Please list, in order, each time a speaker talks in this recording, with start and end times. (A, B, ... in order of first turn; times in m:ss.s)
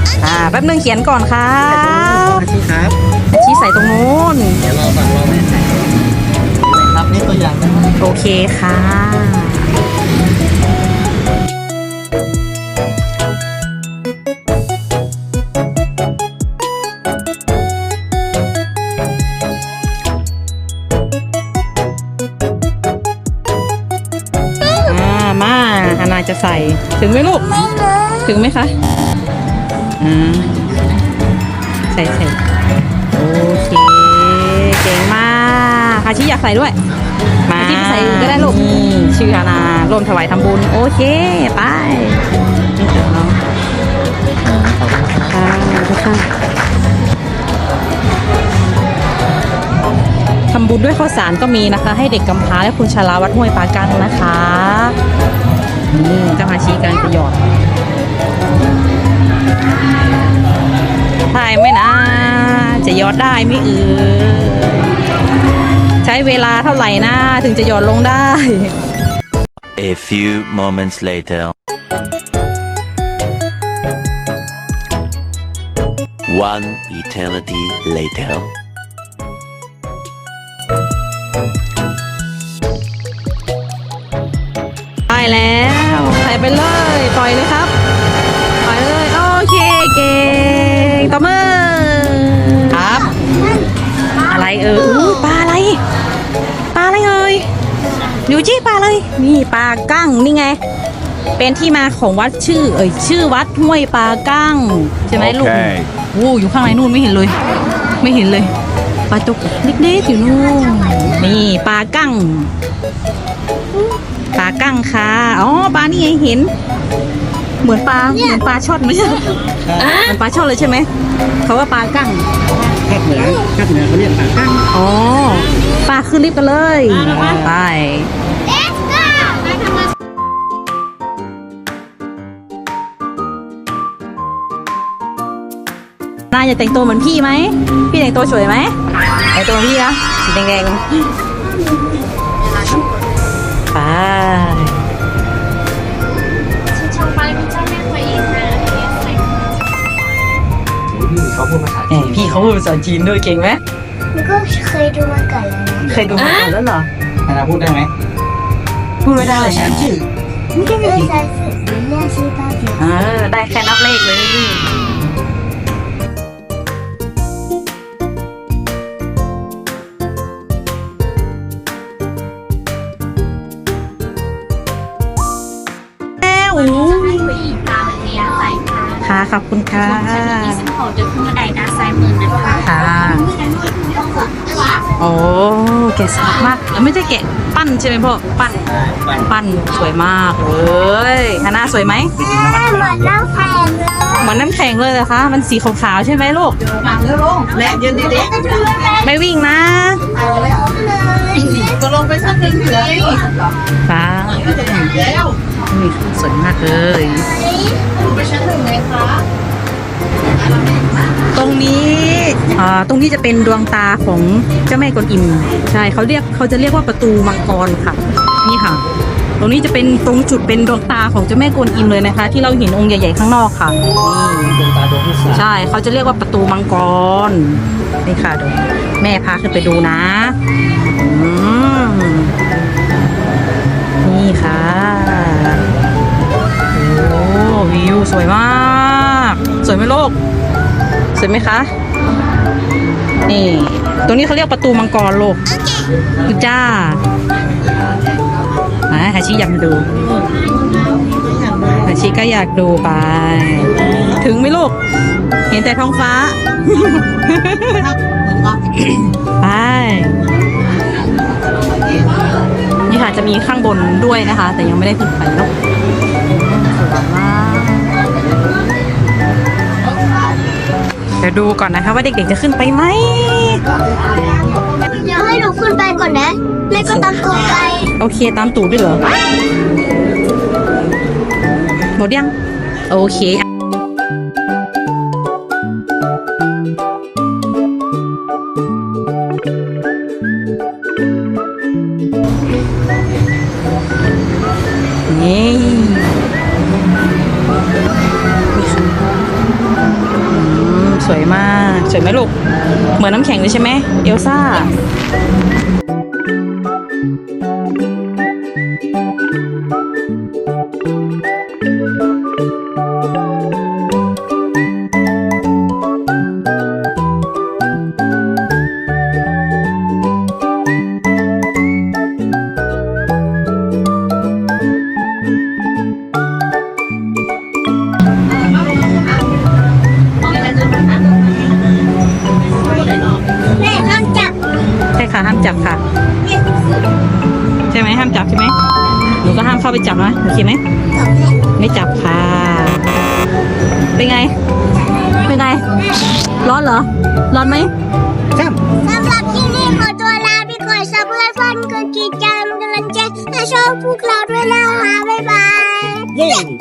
0:00.2-0:02.5 A
0:01.8-0:03.0 B
0:03.3-0:04.6 A
0:04.7-0:05.6 B
0:06.8-0:07.8 B
0:08.0-0:09.7 A
0:24.8-0:27.6 A
0:27.4-0:28.3 C
0:28.2-0:28.7 A
0:30.0-0:30.8 A
0:31.9-0:32.4 A
0:33.1-0:36.8 A
0:37.5-0:42.2 A
0:42.8-0:43.4 A
0:44.4-0:46.3 A
0:50.5-0:55.0 A
0:55.9-0:57.4 A
1:01.3-1:04.9 A
1:06.0-1:08.7 A
1:09.8-1:11.5 D
1:16.3-1:18.5 D
1:25.1-1:27.7 A
1:28.6-1:33.1 A
1:33.2-1:33.7 C
1:34.3-1:35.8 A
1:36.7-1:37.4 A
1:38.2-1:40.6 A
1:41.4-1:47.4 A
1:45.1-1:45.9 D
1:48.0-1:48.5 A
1:49.1-1:52.5 A
1:54.3-1:56.5 A
1:57.6-1:59.4 A
1:59.9-2:00.9 A
2:01.4-2:02.2 A
2:02.7-2:04.6 B
2:04.7-2:08.1 A
2:16.3-2:18.7 A
2:19.3-2:20.8 A
2:23.7-2:24.8 A
2:26.8-2:29.2 C
2:31.0-2:31.9 B
2:31.9-2:33.6 A
2:34.1-2:35.9 C
2:35.8-2:36.9 A
2:37.3-2:37.9 B
2:39.0-2:39.8 A
2:39.2-2:40.0 B
2:40.5-2:42.8 C
2:42.8-2:44.7 A
2:56.2-2:57.6 A
2:58.2-2:58.6 C
2:59.0-3:00.8 A
3:02.4-3:03.3 A
3:03.1-3:04.7 C
3:04.9-3:12.1 A
3:12.2-3:14.2 C
3:14.2-3:16.6 A
3:17.4-3:19.1 C
3:19.0-3:20.0 A
3:20.1-3:23.2 C
3:23.9-3:27.3 A
3:27.4-3:27.7 C
3:31.3-3:38.8 A
3:39.4-3:44.6 A
3:44.6-3:45.3 B
3:45.3-3:50.4 A
3:51.0-3:52.3 A
3:54.0-3:55.6 A
3:56.7-4:00.1 A
4:01.2-4:01.7 A
4:03.3-4:05.4 A
4:06.2-4:07.0 A
4:08.9-4:09.9 A
4:11.7-4:14.7 A
4:15.5-4:17.9 A
4:19.2-4:20.1 A
4:22.9-4:25.5 A
4:26.3-4:28.0 A
4:31.2-4:33.6 A
4:34.9-4:37.9 C
4:36.8-4:37.1 A
4:38.0-4:39.0 A
4:42.0-4:42.3 A
4:42.9-4:43.4 A
4:55.1-4:56.1 A
4:58.5-4:58.9 A
5:00.2-5:02.3 A
5:03.0-5:04.7 A
5:33.6-5:34.3 C
5:35.0-5:35.8 A
5:37.7-5:38.5 A
5:39.2-5:40.6 A
5:41.0-5:41.3 C
5:41.6-5:42.9 A
5:43.9-5:44.3 A
5:45.2-5:45.8 A
5:46.4-5:47.7 A
5:48.8-5:56.5 C